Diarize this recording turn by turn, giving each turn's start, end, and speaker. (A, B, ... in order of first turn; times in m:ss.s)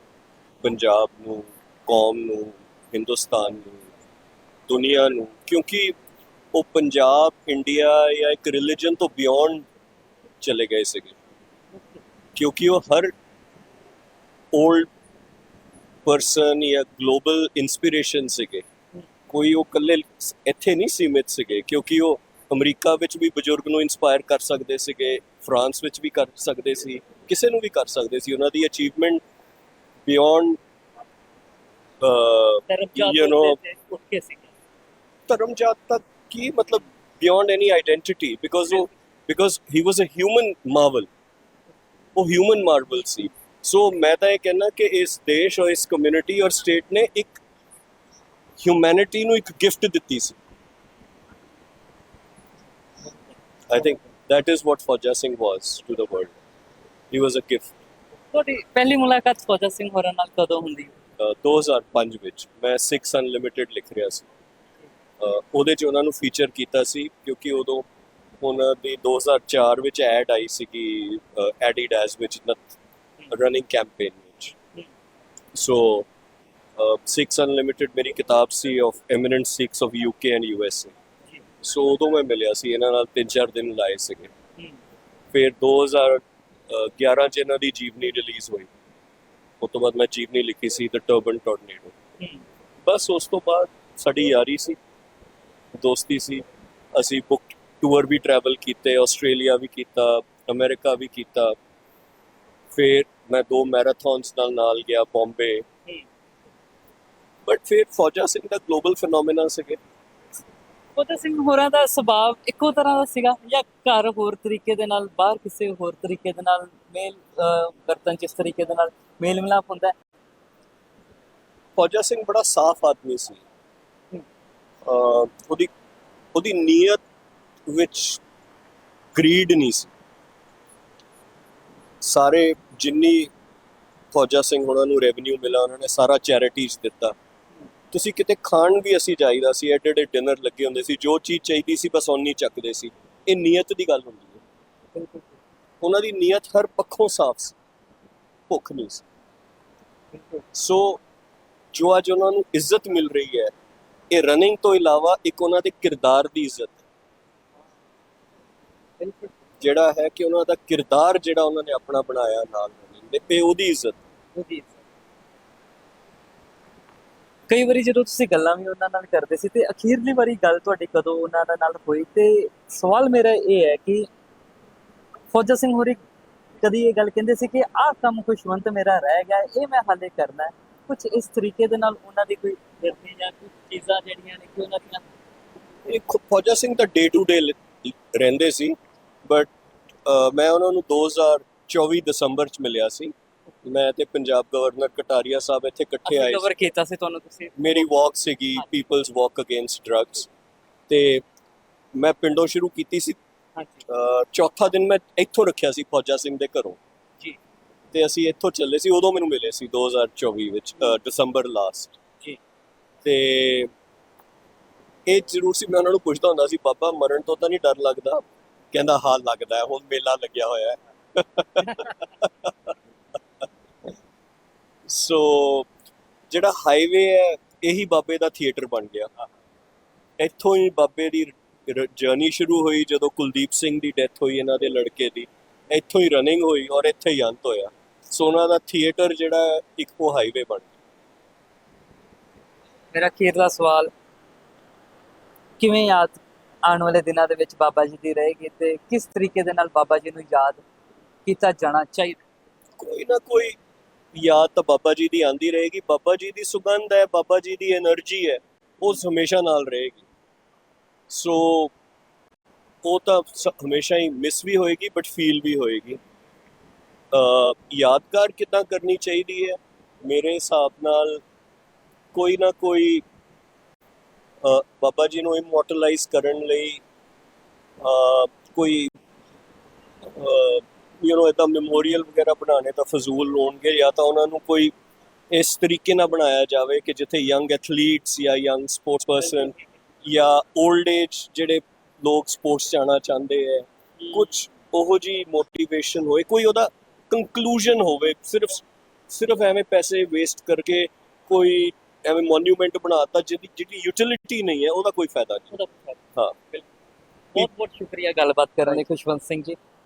0:00.6-0:03.9 A
0:04.7-0:06.0 A
0:06.5-0:09.7 A
0:10.4-0:11.2 A
0:12.4-0:13.1 A
0:14.5-0:14.9 A
0:16.1-0:18.7 A
0:19.3-0:29.2 A
0:30.1-0:30.6 A
0:32.0-0:33.6 A
0:32.7-0:34.5 B
0:35.3-0:41.1 A
0:42.2-0:47.4 A
0:48.6-0:50.4 A
0:53.7-0:56.4 A
0:57.1-0:57.7 A
0:58.3-1:00.9 B
1:01.2-1:04.3 A
1:05.2-1:07.9 A
1:08.4-1:12.8 A
1:13.3-1:14.6 A
1:15.6-1:16.1 A
1:16.8-1:20.9 A
1:21.6-1:24.3 A
1:25.3-1:28.7 A
1:29.6-1:32.0 A
1:32.8-1:34.8 A
1:35.8-1:41.6 A
1:42.7-1:45.7 A
1:47.5-1:49.8 A
1:51.0-1:59.9 B
2:01.8-2:03.4 A
2:04.9-2:05.7 A
2:06.4-2:07.0 A
2:07.7-2:08.2 A
2:09.1-2:09.9 A
2:12.0-2:13.3 A
2:14.1-2:17.2 A
2:17.9-2:24.4 A
2:24.9-2:25.3 B
2:25.8-2:27.6 A
2:28.5-2:29.0 A
2:30.1-2:30.4 B
2:30.5-2:31.0 A
2:31.7-2:33.5 A
2:34.1-2:36.8 A
2:39.0-2:39.4 B
2:39.6-2:44.0 A
2:44.4-2:44.8 B
2:47.5-2:54.1 B
2:55.3-2:56.0 B
2:56.6-3:05.1 B
3:05.9-3:09.5 A
3:10.1-3:13.1 A
3:13.6-3:16.5 A
3:16.1-3:17.9 B
3:17.6-3:20.3 A
3:20.9-3:21.2 A
3:22.0-3:23.2 A
3:23.6-3:23.8 B
3:23.9-3:26.8 A
3:27.9-3:31.9 A
3:33.0-3:33.7 A
3:35.1-3:42.7 A
3:44.9-3:45.7 A
3:46.3-3:49.1 A
3:50.2-4:00.7 A
4:02.9-4:03.9 B
4:05.6-4:10.6 B
4:11.3-4:12.2 B
4:12.8-4:13.6 A
4:14.2-4:20.1 A
4:21.1-4:21.7 A
4:22.8-4:26.0 A
4:27.1-4:31.2 A
4:32.1-4:33.0 A
4:34.4-4:36.8 A
4:37.8-4:38.9 A
4:40.1-4:44.7 A
4:45.3-5:05.6 A
4:54.0-4:54.3 B
5:05.5-5:06.0 B
5:07.3-5:09.6 B